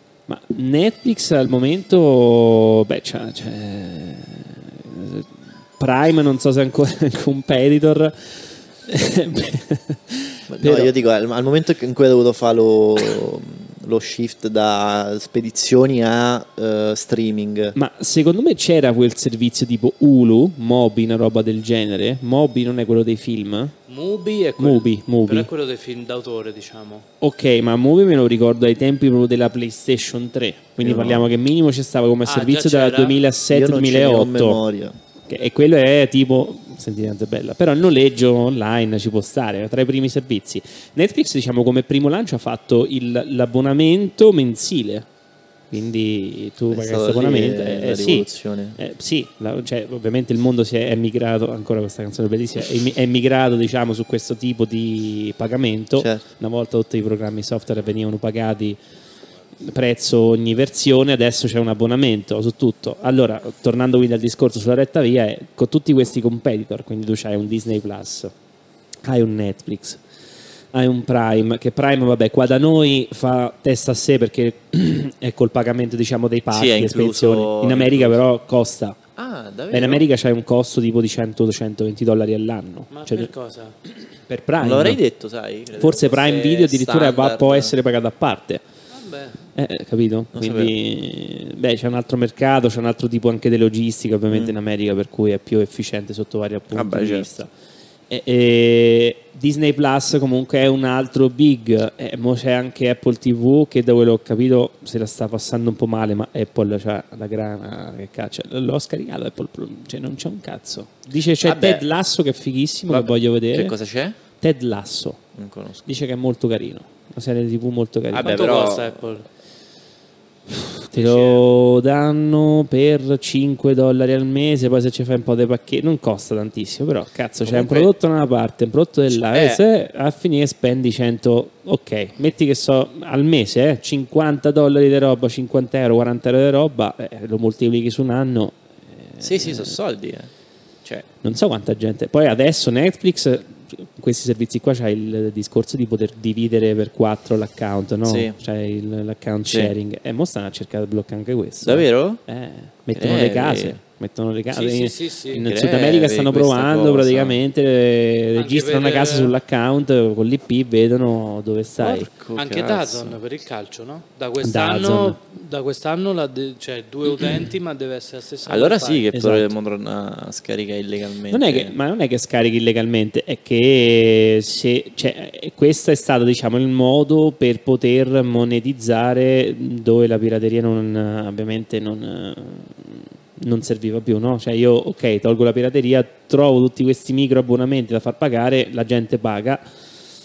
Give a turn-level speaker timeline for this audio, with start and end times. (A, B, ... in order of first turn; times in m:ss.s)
0:00.3-0:10.9 A
0:10.5-0:17.8 B
0:17.7-0:23.7 A
0:23.9-0:27.0 C
0:24.6-0:25.5 A
0:27.2-0:34.6 A
0:30.8-0:31.3 B
0:32.2-0:33.2 C
0:33.5-0:35.0 B
0:35.3-0:45.1 A
0:45.7-0:48.3 A
0:46.7-0:48.8 B
0:48.8-0:58.8 A
0:56.0-0:56.2 B
0:59.6-1:08.3 A
1:09.0-1:10.0 A
1:10.7-1:19.0 A
1:16.5-1:18.2 B
1:19.2-1:20.1 B
1:19.7-1:23.3 A
1:22.9-1:23.7 C
1:24.3-1:25.0 A
1:24.6-1:27.7 B
1:25.8-1:28.6 A
1:28.9-1:29.4 C
1:29.5-1:37.5 A
1:30.3-1:30.8 B
1:36.7-1:37.3 B
1:38.1-1:53.7 A
1:51.4-1:51.8 B
1:52.9-1:54.2 B
1:54.4-1:55.2 A
1:55.3-1:56.0 B
1:55.9-1:58.5 A
1:58.1-1:59.1 B
1:58.2-1:59.2 C
2:00.5-2:19.8 A
2:00.9-2:01.5 C
2:07.4-2:07.9 B
2:09.1-2:09.6 B
2:19.2-2:20.3 B
2:21.2-2:42.1 A
2:28.0-2:28.4 B
2:31.6-2:32.2 B
2:32.9-2:33.8 B
2:34.5-2:35.5 C
2:35.4-2:37.4 B
2:38.3-2:39.3 C
2:41.8-2:43.2 B
2:42.4-2:49.1 C
2:44.4-2:45.2 A
2:47.0-2:47.5 B
2:48.4-2:51.8 B
2:49.1-2:49.5 A
2:51.3-3:09.6 A